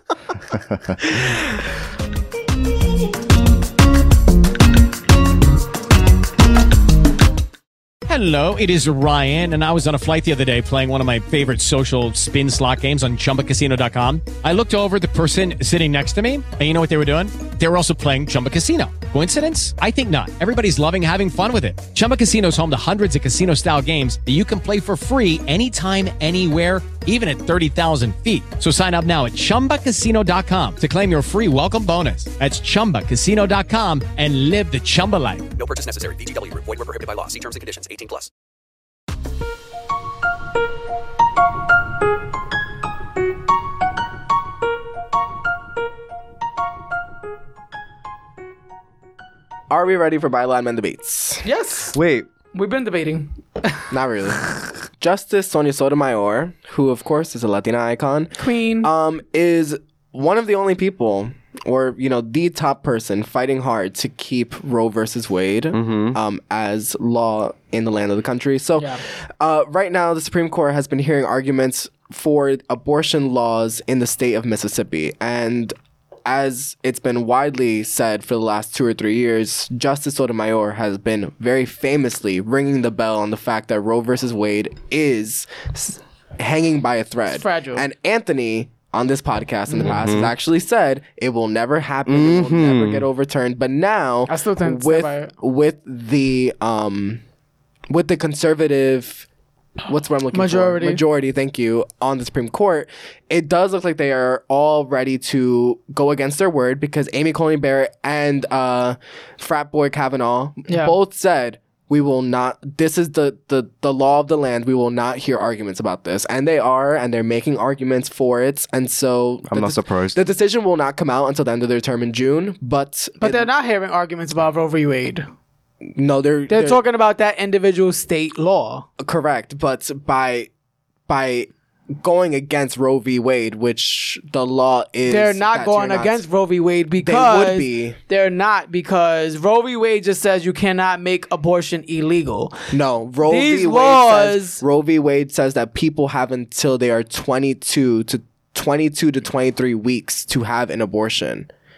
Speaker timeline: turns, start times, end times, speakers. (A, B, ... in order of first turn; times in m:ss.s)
0:00.5-0:01.0 A
0:08.1-0:35.5 B
0:35.6-0:38.3 C
0:49.7-0:51.5 D
0:51.4-0:52.0 E
0:51.9-0:52.3 A
0:52.5-0:53.9 E
0:53.9-0:54.5 D
0:55.0-1:15.8 D
0:58.4-0:58.9 E
1:05.7-1:06.2 A
1:16.3-1:37.2 D
1:27.3-1:27.8 E
1:29.7-1:30.0 E
1:29.8-1:30.3 A
1:32.1-1:33.1 A
1:34.3-1:35.3 E
1:37.9-1:39.3 D
1:39.9-2:03.5 D
1:40.3-1:41.0 E
1:50.7-1:50.9 E
1:59.5-2:00.2 A
2:03.2-2:05.3 E
2:06.0-2:06.8 D
2:06.5-2:08.9 E
2:09.0-2:10.5 D
2:11.1-2:16.2 D
2:15.1-2:22.6 E
2:17.0-2:18.0 D
2:22.7-2:31.5 D
2:23.2-2:24.6 E